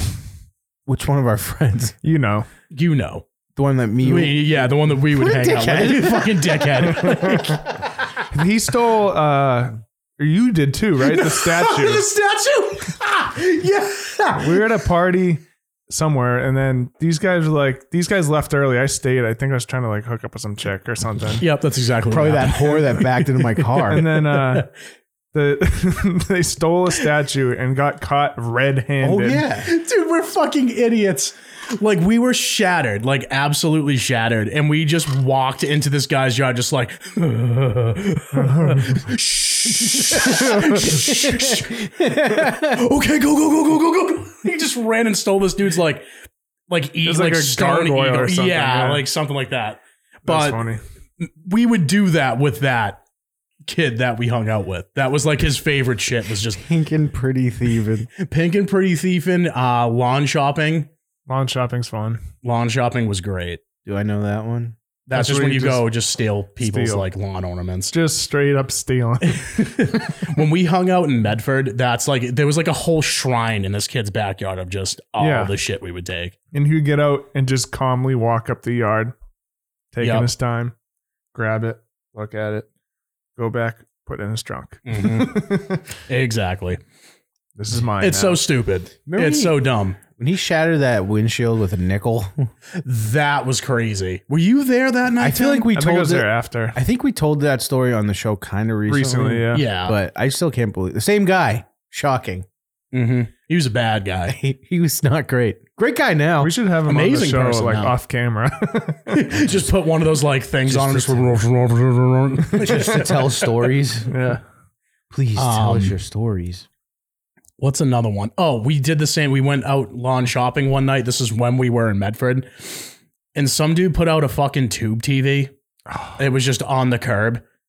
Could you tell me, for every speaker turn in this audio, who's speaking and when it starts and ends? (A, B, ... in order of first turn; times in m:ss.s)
0:00.9-0:02.0 A
0:02.0-0:02.5 B
0:02.7-0:03.2 C
0:03.6-0:07.5 A
0:04.0-0:07.6 C
0:08.3-0:12.1 B
0:11.0-0:14.4 C
0:14.4-0:21.4 B
0:21.4-0:24.7 C
0:22.1-0:24.0 A
0:23.9-0:24.7 B
0:25.3-0:29.4 B
0:29.0-0:29.7 A
0:29.6-0:38.4 C
0:38.3-0:39.1 B
0:38.9-0:46.0 C
0:39.8-0:42.8 A
0:46.7-0:50.6 C
0:47.0-0:49.0 B
0:50.2-0:50.8 B
0:51.2-0:53.0 C
0:53.7-0:56.6 C
0:56.6-0:58.1 A
0:58.2-1:00.9 C
1:01.3-1:02.2 B
1:02.4-1:03.6 C
1:03.8-1:04.8 A
1:05.1-1:07.9 C
1:05.1-1:05.8 B
1:06.6-1:07.1 B
1:07.9-1:09.8 B
1:09.5-1:16.3 C
1:15.2-1:15.5 B
1:16.5-1:19.1 B
1:19.9-1:20.7 B
1:20.0-1:20.3 C
1:21.3-1:22.6 B
1:23.4-1:25.8 B
1:24.9-1:25.5 C
1:26.1-1:26.8 C
1:27.6-1:28.4 B
1:28.0-1:30.0 C
1:29.1-1:32.5 A
1:32.8-1:35.7 C
1:35.2-1:42.4 A
1:35.7-1:36.8 B
1:38.9-1:39.7 B
1:39.5-1:40.0 C
1:42.9-1:44.4 C
1:44.3-1:46.5 A
1:46.4-1:49.3 B
1:46.9-1:47.9 C
1:49.1-1:53.6 C
1:50.6-1:51.4 A
1:52.5-1:54.2 A
1:54.1-1:54.4 B
1:55.1-1:56.6 A
1:55.4-1:55.9 C
1:57.6-2:05.5 C
2:05.9-2:06.2 B
2:06.2-2:07.4 C